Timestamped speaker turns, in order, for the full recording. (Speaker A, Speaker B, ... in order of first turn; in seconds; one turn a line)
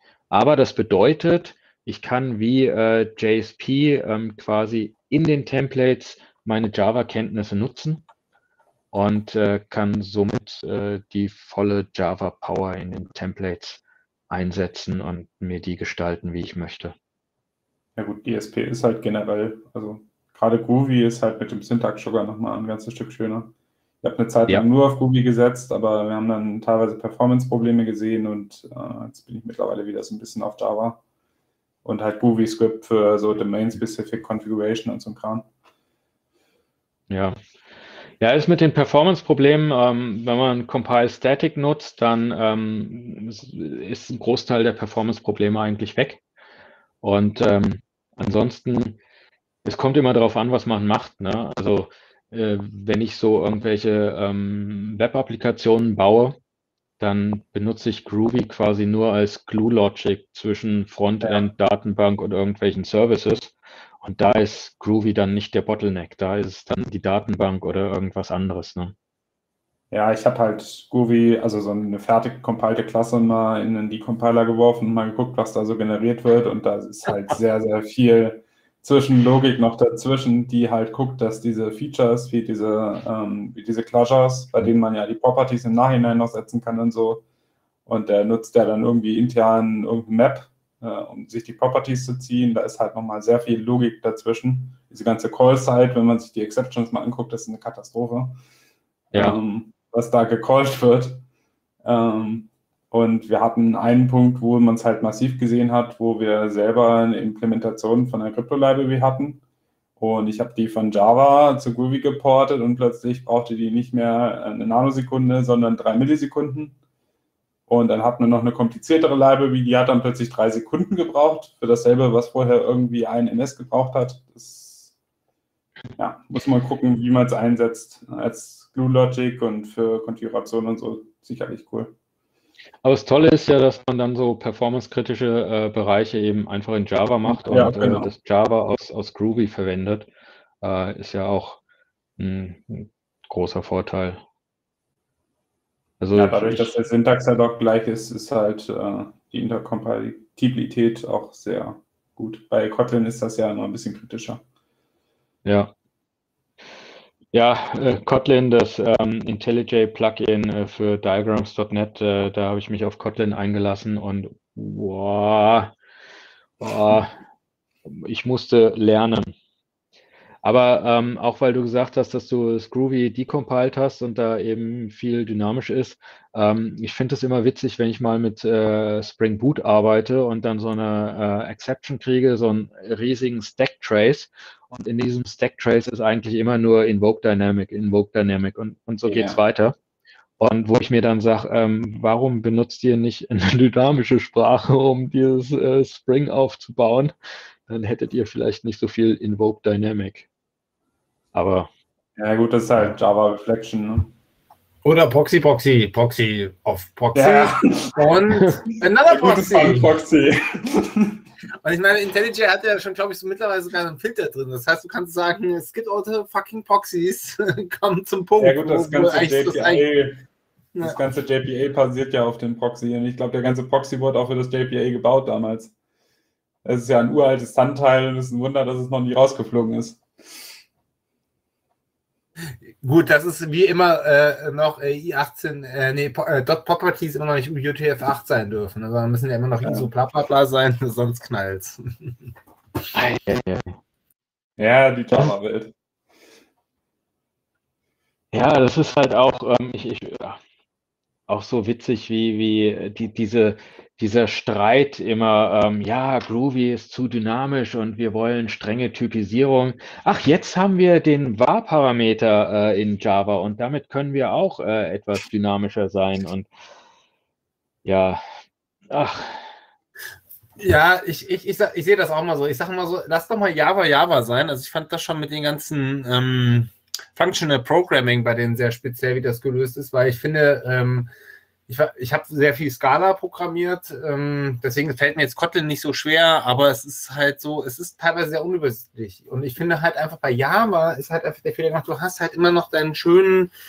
Speaker A: 0.3-8.0
Speaker A: 8.9-16.9
Speaker B: 18.0-31.0
Speaker B: 31.9-35.5
Speaker A: 37.1-37.4
Speaker A: 38.2-46.2
Speaker A: 47.0-49.0
Speaker A: 49.6-56.4
Speaker A: 57.0-68.9
Speaker B: 69.9-87.2
Speaker B: 87.9-98.4
Speaker B: 99.1-101.2
Speaker B: 101.8-109.4
Speaker B: 110.0-116.8
Speaker B: 117.7-124.9
Speaker B: 126.0-131.9
Speaker A: 132.8-140.1
Speaker B: 137.3-138.1
Speaker A: 140.6-141.6
Speaker A: 142.2-144.2
Speaker A: 146.0-146.7
Speaker B: 146.2-154.4
Speaker A: 155.4-155.7
Speaker A: 157.3-165.7
Speaker A: 166.6-167.1
Speaker A: 167.9-169.3
Speaker A: 170.4-189.8
Speaker B: 189.1-189.4
Speaker A: 190.4-197.1
Speaker A: 197.7-200.3
Speaker A: 201.3-201.7
Speaker B: 202.2-204.1
Speaker C: 204.8-209.9
Speaker B: 207.2-208.1
Speaker B: 208.7-211.2
Speaker C: 211.6-219.8
Speaker B: 218.4-220.2
Speaker B: 220.8-225.7
Speaker B: 226.7-230.0
Speaker C: 232.7-242.2
Speaker A: 242.9-243.8
Speaker B: 244.6-245.7
Speaker A: 248.3-250.4
Speaker A: 251.3-266.5
Speaker A: 267.9-268.2
Speaker A: 268.9-269.5
Speaker C: 270.6-281.1
Speaker C: 281.7-293.5